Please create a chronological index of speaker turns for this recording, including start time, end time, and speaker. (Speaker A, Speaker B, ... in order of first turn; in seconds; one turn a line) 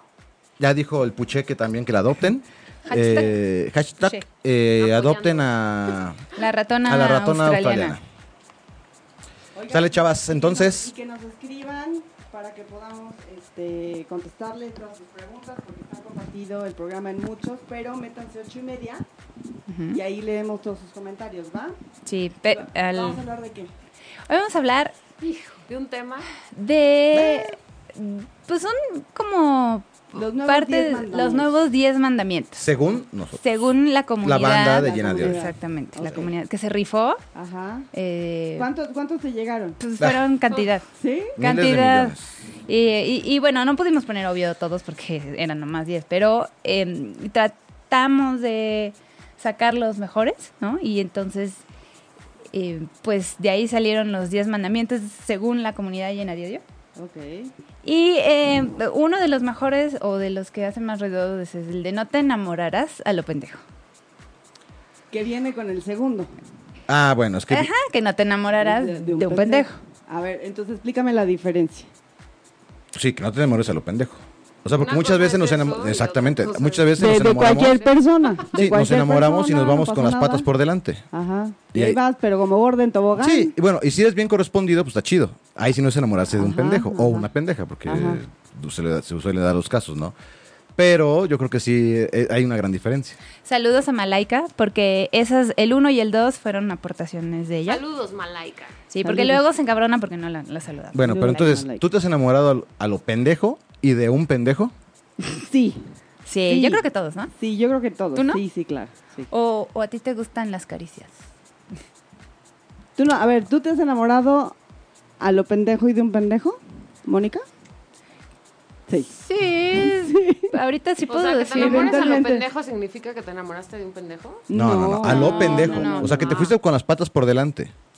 Speaker A: 0.6-6.2
Speaker B: 2.8-3.4
Speaker C: 4.8-6.0
Speaker B: 6.3-8.0
Speaker A: 6.8-8.0
Speaker D: 9.5-19.1
Speaker A: 9.7-10.9
Speaker B: 19.7-20.0
Speaker D: 19.9-21.8
Speaker B: 22.0-23.2
Speaker D: 22.4-23.7
Speaker B: 24.3-24.9
Speaker C: 25.2-26.3
Speaker B: 26.5-32.6
Speaker D: 27.1-27.5
Speaker D: 30.1-31.5
Speaker A: 32.6-33.4
Speaker B: 33.4-37.2
Speaker A: 34.2-35.4
Speaker D: 34.8-36.3
Speaker A: 36.0-36.3
Speaker D: 37.3-37.9
Speaker B: 37.9-38.7
Speaker D: 38.5-39.8
Speaker B: 39.8-40.9
Speaker D: 41.0-41.4
Speaker A: 41.4-42.3
Speaker B: 41.4-51.6
Speaker B: 52.5-56.6
Speaker D: 57.0-57.5
Speaker B: 57.8-63.6
Speaker D: 65.1-66.3
Speaker A: 66.9-67.7
Speaker B: 67.5-69.8
Speaker D: 68.6-71.9
Speaker A: 72.9-77.8
Speaker C: 74.7-78.5
Speaker D: 77.0-80.5
Speaker A: 78.5-81.0
Speaker D: 81.1-83.5
Speaker A: 81.7-82.0
Speaker A: 83.2-90.1
Speaker D: 86.3-87.3
Speaker D: 87.8-88.2
Speaker A: 90.8-93.2
Speaker B: 93.4-97.8
Speaker C: 97.7-98.8
Speaker B: 98.9-101.4
Speaker D: 99.0-99.4
Speaker A: 100.9-104.7
Speaker D: 101.0-101.8
Speaker D: 105.2-105.8
Speaker B: 106.2-107.3
Speaker D: 106.5-106.8
Speaker D: 107.3-109.3
Speaker B: 108.1-108.4
Speaker B: 109.3-111.2
Speaker D: 113.0-114.5
Speaker D: 115.2-117.5
Speaker B: 119.2-122.4
Speaker D: 119.8-120.5
Speaker C: 121.1-124.4
Speaker D: 121.5-122.4
Speaker D: 124.5-126.3
Speaker A: 124.5-127.7
Speaker B: 125.0-126.3
Speaker C: 125.5-126.6